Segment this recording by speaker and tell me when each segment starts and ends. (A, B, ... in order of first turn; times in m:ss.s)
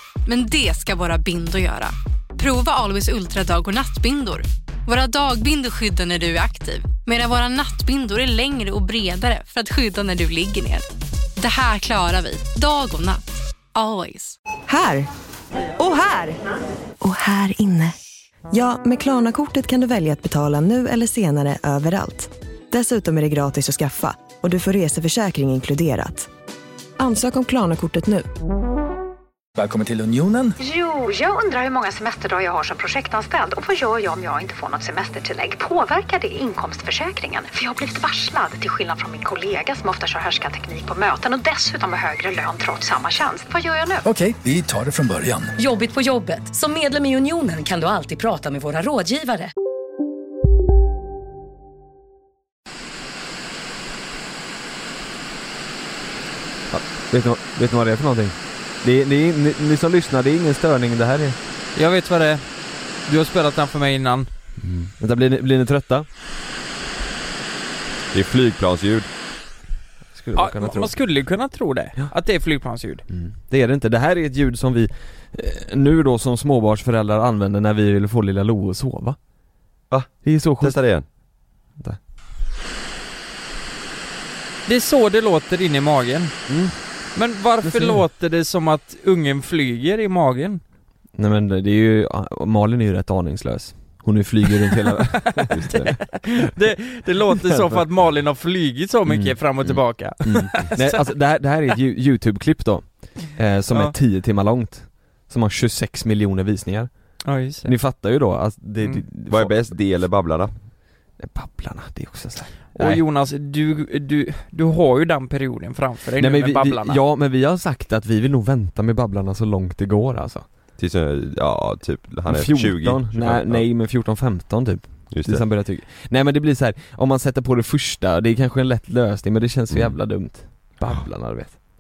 0:00.3-0:10.8 A
0:11.4-0:13.2 A
0:13.8-0:14.4 A
0:14.7-0:15.1 B
0:15.8-0:16.4 B
0:17.0-0:17.9 B
0:18.5-0:26.3 B
0:27.0-0:28.3 B
0:29.6-0:30.5 C
0:30.6-0:44.0 D
0:44.0-0:45.5 C
0:45.6-0:49.5 E
0:56.7-1:01.4 F
1:01.8-1:04.3 G
1:04.6-1:06.1 F
1:08.1-1:09.1 H
1:10.1-1:11.0 F
1:10.4-1:13.0 G
1:13.1-1:19.2 F
1:19.9-1:21.1 H
1:20.2-1:20.9 F
1:24.7-1:26.4 G
1:26.5-1:26.8 F
1:27.1-1:30.6 G
1:27.6-1:28.0 F
1:31.2-1:36.3 F
1:35.5-1:36.0 H
1:36.1-1:41.1 G
1:39.1-1:49.8 F
1:43.7-1:44.0 G
1:47.2-1:47.9 G
1:49.3-1:50.5 H
1:51.2-1:53.0 F
1:52.8-1:57.0 G
1:56.2-2:00.4 F
2:00.8-2:03.7 H
2:02.3-2:11.6 F
2:05.1-2:05.5 H
2:09.7-2:10.0 H